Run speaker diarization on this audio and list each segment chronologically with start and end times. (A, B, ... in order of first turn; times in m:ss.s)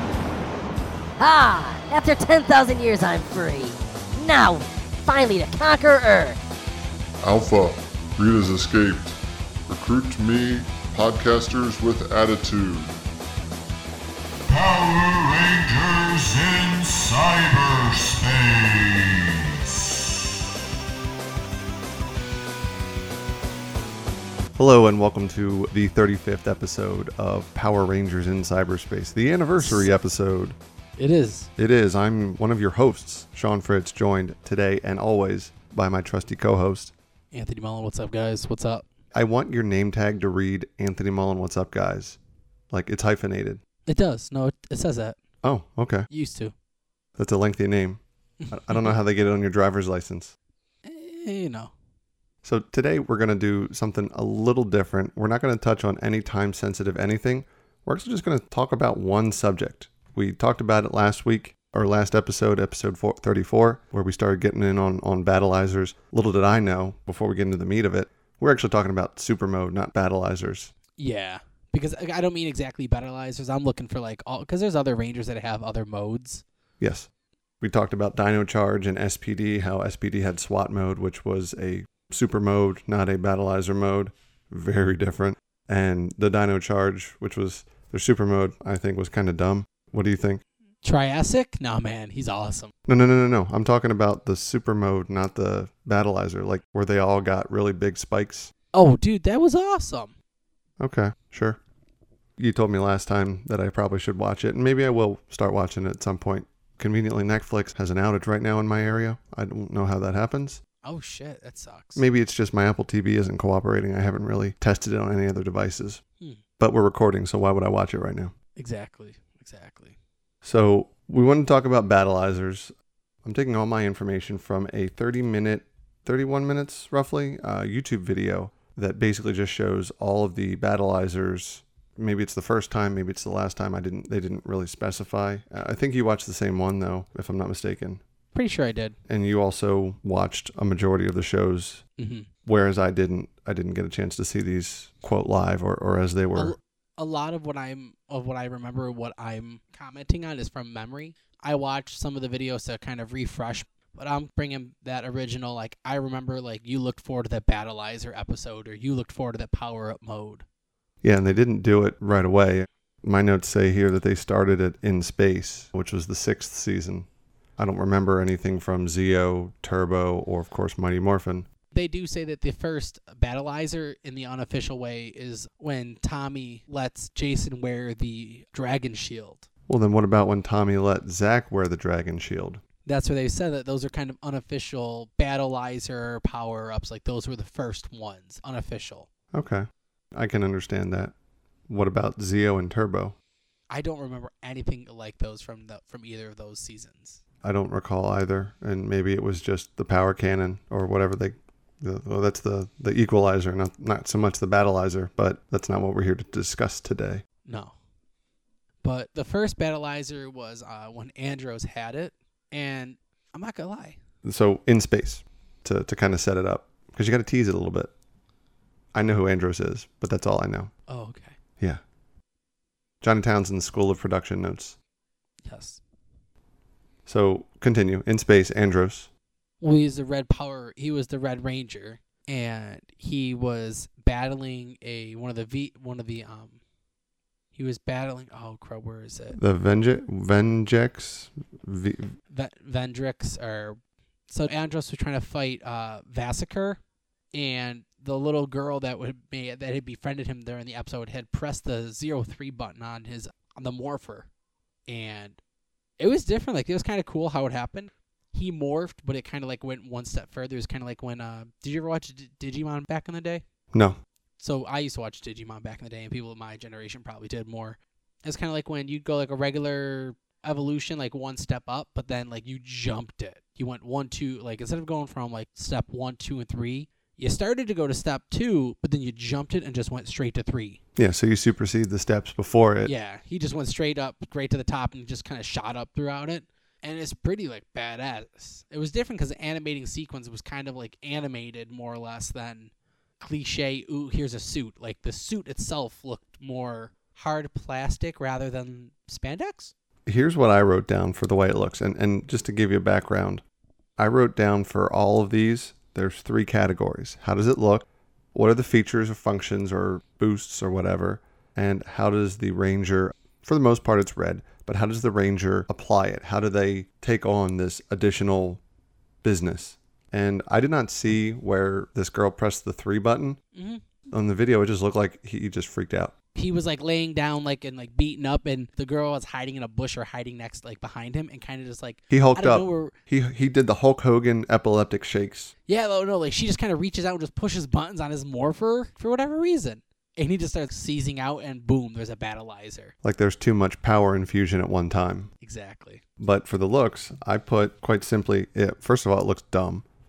0:01.2-0:06.4 A
0:07.2-0:13.0 B
0:14.5-0:19.9 C
0:24.6-0:30.6 D
0:31.0-0:31.5 E
0:31.6-0:36.9 D
0:37.3-0:38.9 E
0:39.1-0:42.2 D
0:42.7-0:43.6 D
0:43.9-0:45.2 E
0:45.4-0:46.1 D
0:46.1-0:46.5 E
0:47.2-0:50.4 D
0:50.8-0:51.7 E
0:52.4-1:10.7 D
1:11.0-1:16.4 E
1:16.8-1:17.1 D
1:17.6-1:30.4 D
1:30.8-1:32.7 E
1:32.9-1:38.5 D
1:38.7-1:40.1 E
1:40.8-1:41.6 D
1:42.4-1:50.6 D
1:50.8-1:52.0 E
1:52.0-1:56.0 D
1:56.6-1:58.3 D
1:58.6-2:00.0 E
2:00.4-2:18.0 D
2:18.3-2:19.0 E
2:19.1-2:21.8 D
2:22.0-2:22.3 E
2:22.4-2:26.6 D
2:26.4-2:40.4 E
2:41.0-2:51.5 D
2:51.7-2:59.4 E
2:59.7-3:02.6 D
3:02.9-3:09.1 E
3:09.3-3:11.1 D
3:11.7-3:13.2 D
3:13.7-3:17.2 E
3:17.4-3:27.2 D
3:27.5-3:27.7 E
3:28.8-3:34.0 E
3:34.2-3:37.9 D
3:38.9-3:40.7 D
3:40.9-3:41.4 E
3:43.0-3:44.8 D
3:45.4-3:45.8 E
3:47.1-3:49.1 D
3:49.6-3:56.6 E
3:57.5-3:59.4 E
3:59.3-4:02.2 D
4:02.3-4:06.8 E
4:07.3-4:14.3 E
4:14.9-4:15.4 E
4:16.0-4:23.4 E
4:23.7-4:24.0 D
4:24.4-4:40.8 E
4:41.0-4:42.9 D
4:42.8-4:59.7 E
5:00.1-5:03.4 D
5:04.0-5:18.6 D
5:19.2-5:23.4 D
5:23.5-5:23.8 E
5:24.1-5:26.1 D
5:26.4-5:32.9 E
5:32.1-5:35.5 D
5:35.7-5:42.9 E
5:43.0-5:45.3 D
5:45.4-5:46.0 E
5:46.2-5:49.8 D